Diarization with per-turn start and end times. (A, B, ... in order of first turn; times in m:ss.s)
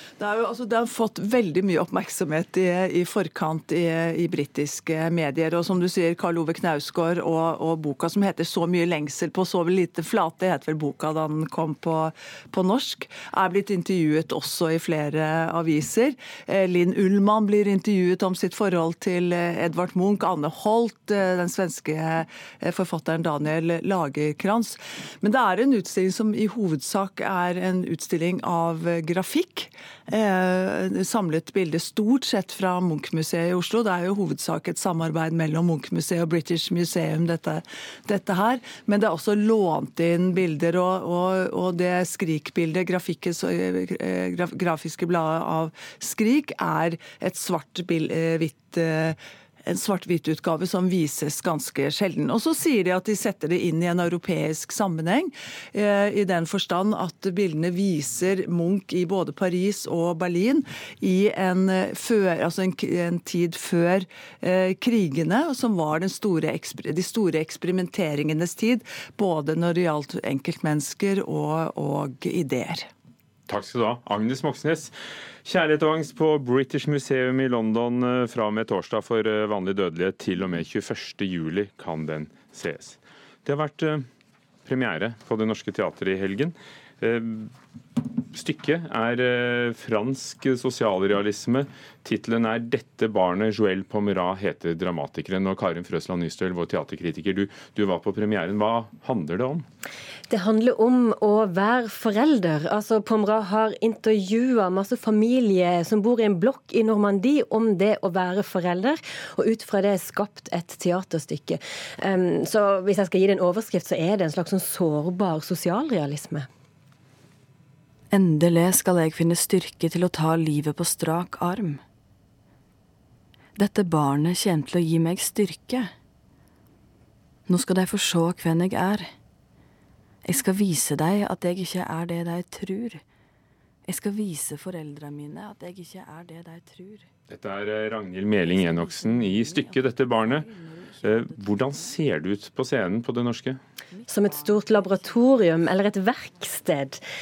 0:00.2-1:12.9 A
1:13.5-1:24.1 B
1:24.6-1:27.5 B
1:28.3-1:39.6 B
1:40.3-1:56.5 C
1:58.1-2:01.8 D
2:03.6-2:05.9 D
2:07.5-2:09.1 D
2:10.2-2:13.0 D
2:13.8-2:17.1 D
2:17.3-2:20.4 B
2:18.4-2:21.9 D
2:21.0-2:23.6 B
2:23.9-2:24.5 D
2:24.1-2:27.0 C